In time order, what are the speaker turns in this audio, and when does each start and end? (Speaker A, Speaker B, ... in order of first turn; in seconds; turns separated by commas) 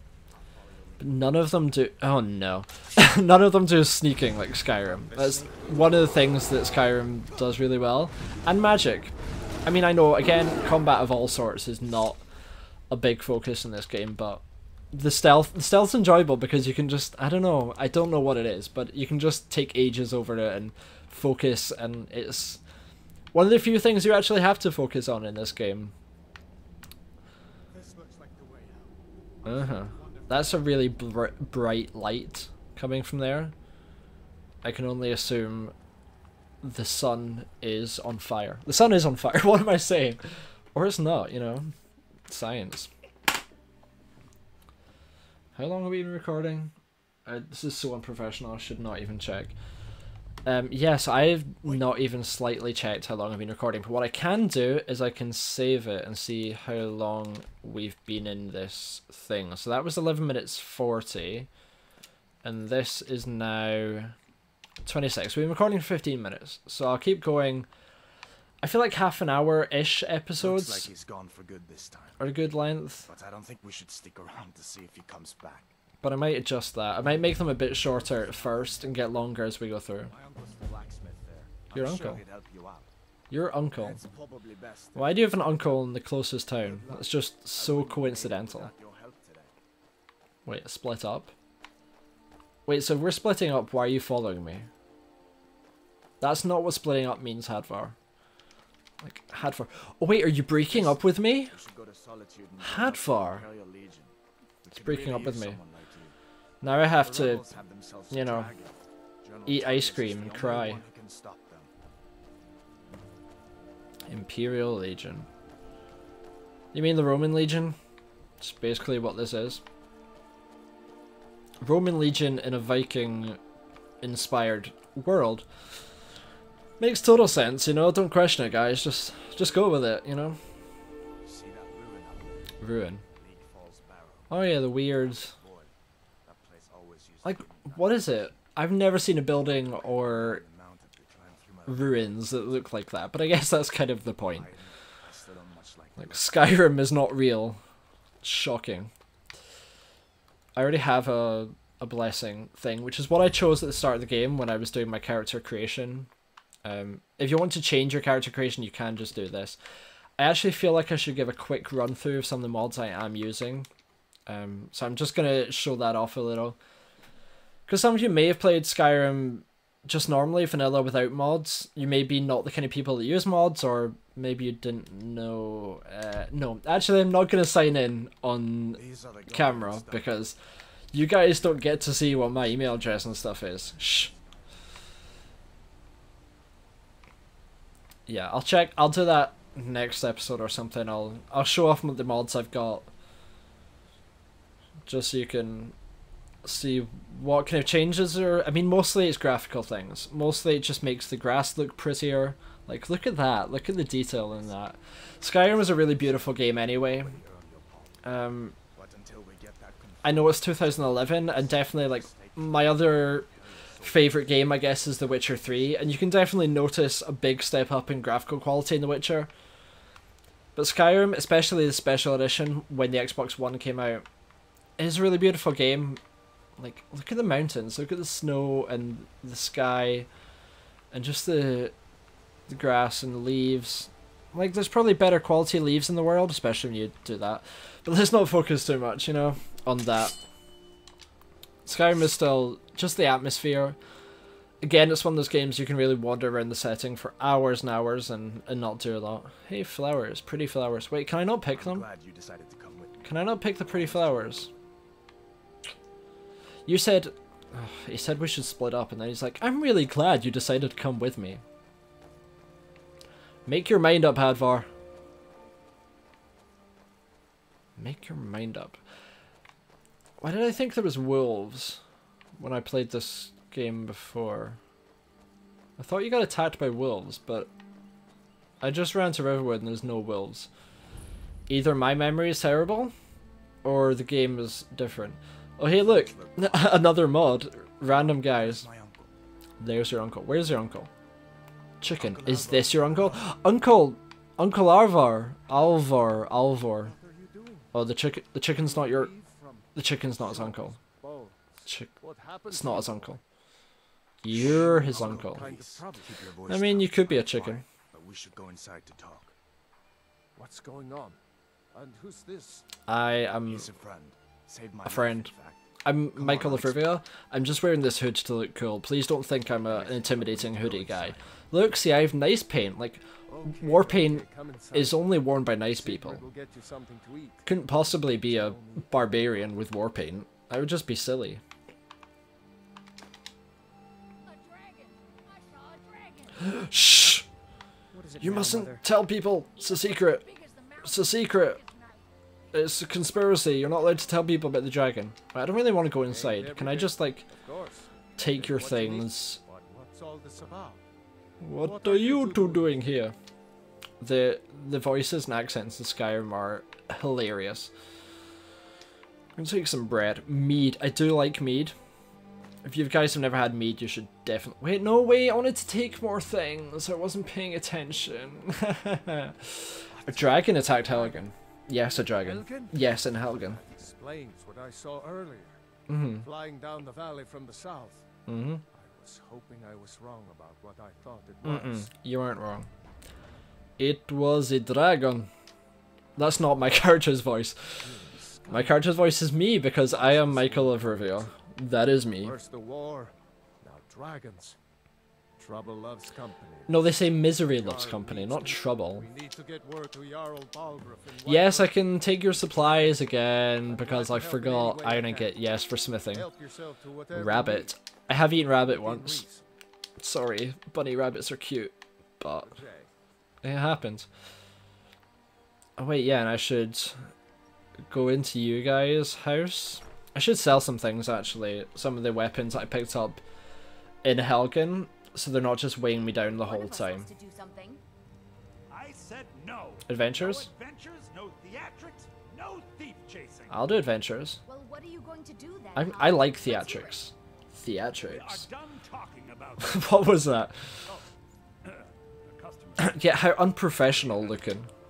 Speaker A: 0.3-1.5, Speaker B: 1.0-9.1, Speaker A: 4.8-6.5, Speaker B: 9.6-12.2, Speaker B: 12.9-22.6, Speaker B: 23.3-25.9, Speaker A: 27.7-30.7, Speaker B: 29.4-33.5, Speaker C: 29.9-30.2, Speaker B: 34.6-35.7, Speaker B: 36.6-40.2, Speaker B: 40.7-41.7, Speaker B: 42.3-42.9, Speaker B: 45.5-46.7, Speaker B: 47.2-49.5, Speaker B: 50.4-61.5, Speaker B: 62.4-64.1, Speaker B: 64.8-67.7, Speaker B: 68.6-70.9, Speaker A: 70.4-72.3, Speaker B: 72.2-73.1, Speaker A: 73.0-75.7, Speaker B: 76.0-80.1, Speaker A: 77.4-79.1, Speaker A: 80.0-82.9, Speaker B: 81.7-82.2, Speaker B: 83.3-84.0, Speaker A: 83.8-85.8, Speaker B: 84.9-88.7, Speaker A: 86.6-89.5, Speaker B: 90.4-91.3, Speaker B: 92.7-94.7, Speaker B: 96.2-97.9, Speaker B: 99.0-101.5, Speaker A: 100.7-106.1, Speaker B: 102.6-103.4, Speaker B: 104.7-105.6, Speaker B: 106.6-107.5, Speaker A: 106.8-111.7, Speaker B: 108.1-108.5, Speaker B: 109.5-110.8, Speaker B: 114.1-115.3, Speaker B: 116.7-117.8, Speaker B: 118.4-119.6, Speaker B: 121.6-123.4, Speaker B: 124.0-125.5, Speaker B: 126.8-130.4, Speaker A: 131.2-135.7, Speaker B: 132.6-133.0, Speaker B: 134.3-135.3, Speaker A: 136.2-138.2, Speaker B: 137.2-140.4, Speaker A: 139.3-142.2, Speaker B: 141.7-144.5, Speaker A: 144.3-146.4, Speaker B: 146.0-147.6, Speaker B: 148.2-148.9, Speaker B: 150.5-156.1, Speaker B: 156.6-159.6, Speaker B: 160.2-163.7, Speaker B: 164.3-166.6, Speaker B: 167.7-180.4, Speaker A: 178.7-180.2, Speaker B: 180.9-184.1, Speaker B: 188.1-192.9, Speaker B: 194.9-195.7, Speaker B: 196.4-207.2, Speaker A: 204.3-204.6, Speaker A: 205.2-208.0, Speaker B: 208.0-208.5, Speaker A: 208.7-215.3, Speaker B: 210.0-213.3, Speaker B: 213.8-219.3, Speaker B: 220.5-224.0, Speaker B: 224.8-226.0, Speaker B: 226.6-230.1, Speaker B: 230.9-231.7, Speaker B: 232.5-240.2, Speaker B: 241.7-243.8, Speaker B: 244.6-251.9, Speaker A: 251.5-254.5, Speaker B: 253.0-254.5, Speaker B: 256.6-261.4, Speaker B: 263.4-264.7, Speaker B: 267.8-268.8, Speaker B: 270.2-271.8, Speaker B: 272.4-274.6, Speaker B: 275.8-277.5, Speaker B: 278.6-280.5, Speaker B: 281.5-282.9, Speaker B: 283.6-288.7, Speaker A: 285.8-287.1, Speaker A: 288.2-289.1, Speaker B: 289.6-290.9, Speaker B: 291.8-296.9, Speaker A: 292.0-293.3, Speaker C: 296.4-297.8, Speaker B: 297.7-299.1, Speaker C: 298.5-303.2, Speaker B: 299.7-300.8, Speaker B: 301.6-301.9, Speaker B: 302.4-303.2, Speaker B: 304.2-305.5, Speaker C: 304.3-306.1, Speaker A: 304.3-309.3, Speaker B: 306.5-307.6, Speaker C: 310.4-311.2, Speaker C: 311.7-312.6, Speaker B: 312.9-313.7, Speaker A: 313.4-316.9, Speaker B: 314.8-315.3, Speaker B: 315.8-326.2, Speaker A: 319.6-321.3, Speaker C: 323.3-329.5, Speaker B: 327.4-331.4, Speaker D: 334.2-336.7, Speaker B: 336.4-337.2, Speaker C: 337.9-338.8, Speaker B: 338.2-340.2, Speaker D: 339.6-342.0, Speaker B: 340.8-341.6, Speaker B: 342.5-347.3, Speaker C: 346.0-350.8, Speaker B: 348.2-349.4, Speaker B: 351.4-353.1, Speaker C: 351.6-353.0, Speaker B: 354.0-357.7, Speaker B: 359.4-361.7, Speaker B: 362.6-373.6, Speaker A: 370.0-370.5, Speaker C: 370.6-371.2, Speaker C: 372.2-375.6, Speaker B: 375.9-376.3, Speaker C: 376.2-378.1, Speaker B: 378.3-378.6, Speaker C: 378.7-381.9, Speaker B: 381.4-382.7, Speaker B: 383.8-385.3, Speaker B: 386.1-387.9, Speaker C: 387.9-388.7, Speaker A: 387.9-388.7, Speaker B: 388.5-392.4, Speaker C: 389.8-391.4, Speaker C: 392.2-394.6, Speaker C: 395.4-396.9, Speaker B: 396.7-399.1, Speaker C: 397.4-405.4, Speaker B: 401.2-406.3, Speaker C: 406.1-407.7, Speaker B: 407.1-409.2, Speaker C: 408.6-409.4, Speaker B: 410.0-412.6, Speaker C: 412.4-412.9, Speaker B: 413.4-414.1, Speaker B: 415.8-417.1, Speaker B: 417.9-423.2, Speaker B: 424.0-427.1, Speaker D: 426.2-427.8, Speaker E: 428.7-433.8, Speaker B: 429.9-430.5, Speaker B: 433.5-434.4, Speaker D: 434.4-437.0, Speaker B: 435.7-438.5, Speaker E: 438.1-440.1, Speaker B: 439.6-440.8, Speaker E: 441.6-443.1, Speaker B: 442.8-444.7, Speaker E: 444.0-444.4